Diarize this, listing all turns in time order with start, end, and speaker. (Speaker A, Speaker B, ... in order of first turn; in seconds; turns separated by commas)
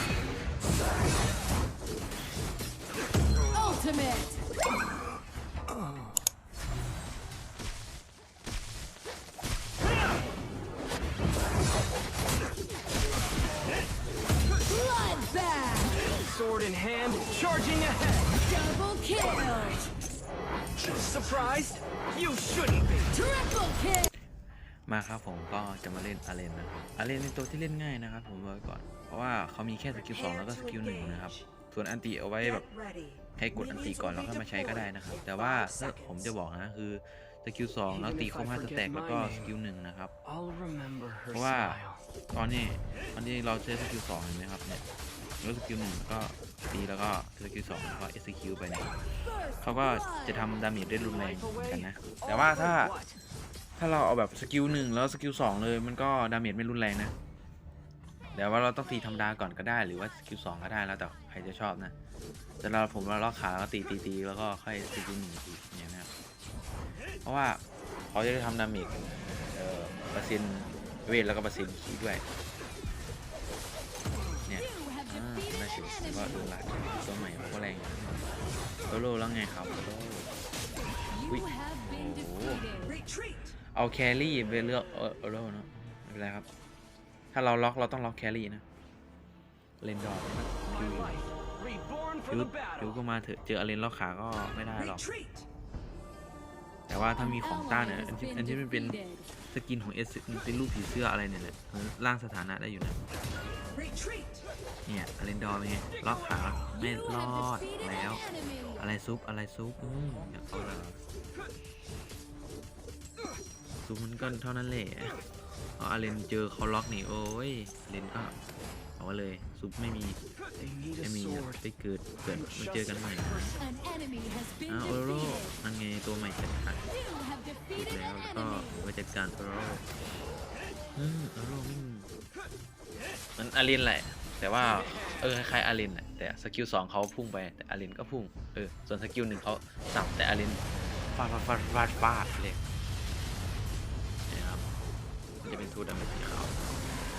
Speaker A: 3.5-4.4, Speaker A: 14.7-16.0, Speaker B: 16.2-18.3, Speaker A: 18.4-19.8, Speaker B: 20.9-23.1, Speaker A: 23.1-24.1, Speaker C: 24.9-32.7, Speaker C: 33.4-40.1, Speaker B: 40.3-42.0, Speaker C: 41.3-44.8, Speaker C: 45.4-48.9, Speaker C: 49.6-53.0, Speaker C: 53.8-57.1, Speaker C: 58.3-61.9, Speaker C: 62.6-66.1, Speaker C: 67.2-72.2, Speaker C: 74.5-78.2, Speaker A: 74.8-75.1, Speaker C: 78.9-80.3, Speaker A: 81.2-83.0, Speaker C: 81.3-82.7, Speaker C: 83.7-86.5, Speaker C: 87.3-88.6, Speaker C: 89.8-91.2, Speaker B: 91.2-92.4, Speaker C: 92.3-95.1, Speaker C: 96.9-103.0, Speaker A: 97.4-99.2, Speaker C: 104.9-108.2, Speaker A: 107.2-108.8, Speaker C: 108.8-111.0, Speaker C: 113.8-115.2, Speaker C: 115.8-118.4, Speaker C: 119.0-120.2, Speaker B: 120.6-121.5, Speaker C: 121.0-123.6, Speaker A: 123.6-125.5, Speaker C: 124.7-126.8, Speaker A: 127.0-127.8, Speaker C: 127.7-129.8, Speaker C: 130.9-132.1, Speaker C: 133.3-142.6, Speaker C: 144.3-144.7, Speaker C: 145.4-146.7